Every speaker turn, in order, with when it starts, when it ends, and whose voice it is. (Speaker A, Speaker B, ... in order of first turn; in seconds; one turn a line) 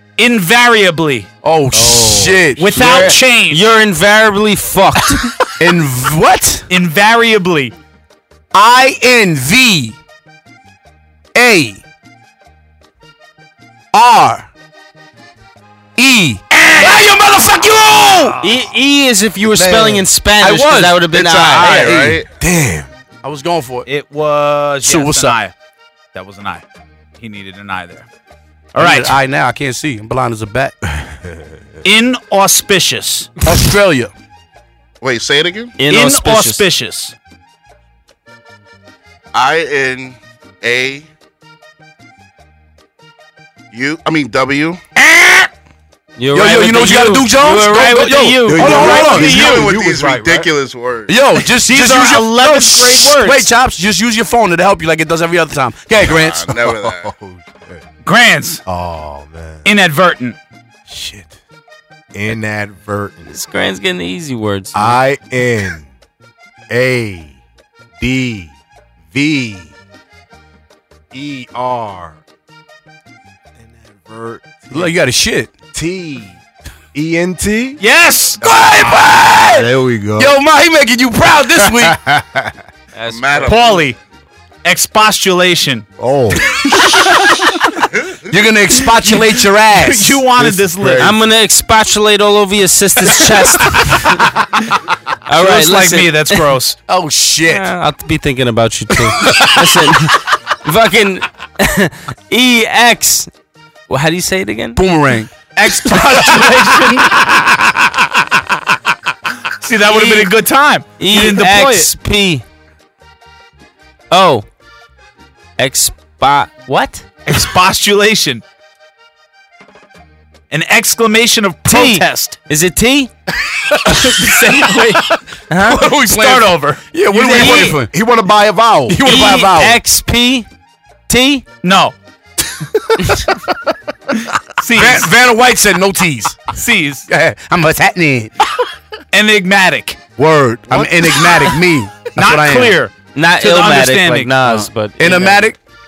Speaker A: 0.2-1.3
Speaker B: 1.4-3.2
Speaker C: 1.7-2.5
Speaker A: 2.6-3.7
Speaker D: 3.5-5.2
Speaker B: 5.6-6.7
Speaker A: 6.7-7.8
Speaker B: 8.5-10.0
Speaker B: 11.3-11.8
Speaker B: 13.9-14.5
Speaker B: 16.0-18.4
Speaker D: 18.4-21.9
Speaker B: 19.6-22.2
Speaker E: 21.1-22.3
Speaker C: 22.3-22.9
Speaker B: 23.2-23.9
Speaker A: 23.9-25.5
Speaker B: 24.8-25.4
Speaker A: 26.1-26.6
Speaker A: 27.2-28.1
Speaker A: 28.8-29.2
Speaker B: 28.8-30.7
Speaker A: 31.8-33.4
Speaker B: 33.4-34.1
Speaker E: 35.0-35.8
Speaker D: 35.8-36.6
Speaker A: 35.9-37.1
Speaker E: 39.3-41.1
Speaker E: 43.7-44.8
Speaker B: 45.0-45.5
Speaker D: 46.2-48.9
Speaker B: 46.3-49.5
Speaker C: 48.4-50.5
Speaker A: 48.7-49.6
Speaker E: 48.9-51.2
Speaker B: 51.1-56.5
Speaker A: 51.5-53.5
Speaker E: 56.0-57.1
Speaker C: 56.4-57.8
Speaker A: 58.0-58.6
Speaker C: 58.6-59.7
Speaker A: 59.6-60.4
Speaker C: 60.9-61.4
Speaker C: 62.1-63.4
Speaker D: 63.3-65.0
Speaker C: 64.7-65.9
Speaker C: 66.7-67.4
Speaker C: 68.0-68.5
Speaker C: 69.1-69.7
Speaker C: 71.1-72.2
Speaker C: 73.6-75.0
Speaker B: 74.7-75.5
Speaker C: 75.7-76.4
Speaker C: 76.9-77.8
Speaker A: 77.8-78.4
Speaker B: 78.4-82.0
Speaker C: 78.7-80.4
Speaker C: 81.5-82.5
Speaker D: 82.9-83.6
Speaker E: 83.0-83.9
Speaker A: 83.5-84.0
Speaker A: 84.6-85.9
Speaker C: 86.0-86.5
Speaker A: 87.2-87.5
Speaker B: 88.3-90.3
Speaker A: 89.0-91.1
Speaker C: 90.3-91.2
Speaker D: 91.0-94.2
Speaker D: 95.3-96.2
Speaker A: 95.4-96.8
Speaker B: 96.9-97.7
Speaker D: 97.5-103.3
Speaker B: 99.2-99.6
Speaker D: 103.9-104.8
Speaker B: 104.8-107.4
Speaker D: 105.7-106.4
Speaker A: 105.8-107.2
Speaker A: 109.6-111.9
Speaker D: 109.9-110.3
Speaker D: 111.0-112.4
Speaker D: 114.1-114.5
Speaker D: 115.6-116.7
Speaker A: 116.7-118.4
Speaker A: 120.5-122.4
Speaker D: 121.7-123.1
Speaker A: 123.9-125.1
Speaker D: 125.5-125.9
Speaker B: 125.6-128.0
Speaker A: 125.9-127.8
Speaker C: 127.3-129.1
Speaker D: 127.3-127.7
Speaker B: 128.9-129.8
Speaker D: 129.1-130.5
Speaker D: 131.1-131.5
Speaker A: 131.6-131.9
Speaker A: 134.6-135.1
Speaker B: 134.7-136.5
Speaker A: 136.5-137.1
Speaker B: 137.1-138.3
Speaker A: 139.1-140.1
Speaker B: 140.2-142.8
Speaker A: 140.7-141.6
Speaker A: 142.2-144.7
Speaker D: 143.1-145.5
Speaker B: 145.0-145.6